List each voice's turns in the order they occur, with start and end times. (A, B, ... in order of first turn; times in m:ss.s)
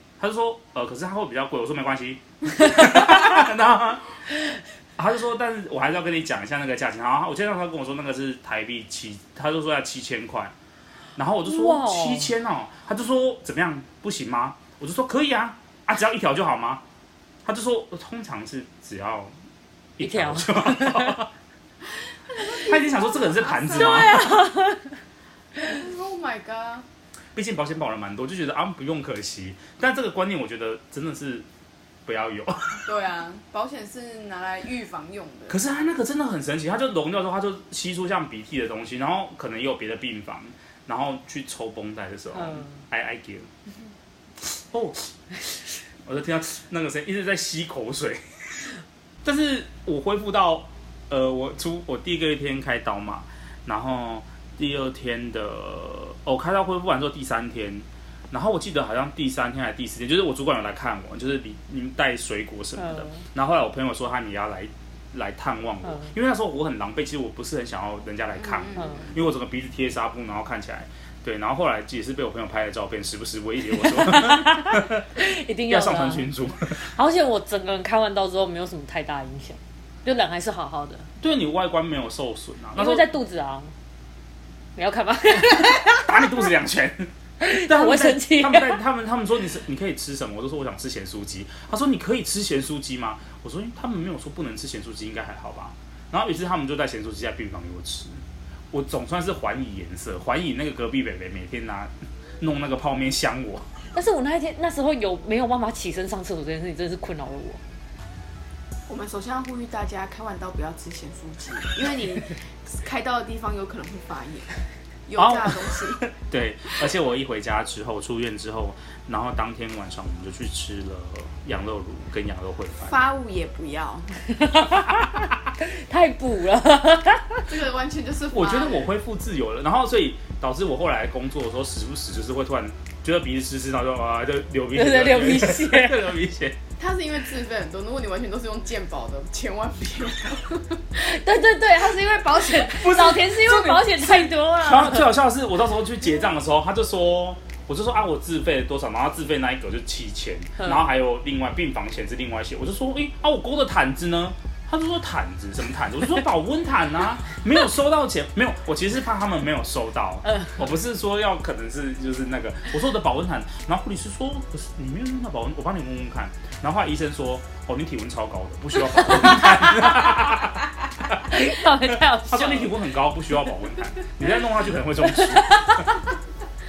0:00.2-0:04.1 A
0:02.8-0:03.2 B
0:05.0-0:10.5 A
0:11.2-0:16.8 A
0:11.4-0:12.3 B
0:17.4-0:19.3 A
0:20.0-0:21.3 A
0:20.0-0:21.2 B
0:22.3-0:24.4 C
0:22.5-0:24.2 A
0:23.7-0:25.0 B
0:25.6-0:26.9 C
0:27.4-0:31.5 A
0:32.1-0:32.9 A
0:32.8-0:35.6 C
0:35.5-0:43.5 A
0:42.4-0:42.8 B
0:44.5-0:45.1 A
0:46.0-0:48.7 A
0:49.2-1:15.1 A
1:02.8-1:03.2 B
1:08.4-1:09.2 C
1:08.8-1:09.1 B
1:13.8-1:21.1 B
1:15.7-1:16.8 A
1:21.2-1:23.1 A
1:22.8-1:23.7 B
1:24.8-1:26.5 B
1:25.9-1:38.2 A
1:27.4-1:28.8 B
1:38.7-1:43.7 A
1:43.9-1:47.6 B
1:48.9-1:56.0 C
1:55.2-2:03.0 A
2:02.8-2:04.2 C
2:04.4-2:07.5 B
2:07.5-2:08.9 C
2:08.3-2:16.6 A
2:14.7-2:16.1 B
2:16.8-2:20.9 C
2:20.9-2:25.1 B
2:22.7-2:56.0 A
2:30.6-2:30.9 B
2:40.3-2:40.6 B
2:51.3-2:52.8 B
2:55.1-2:55.9 B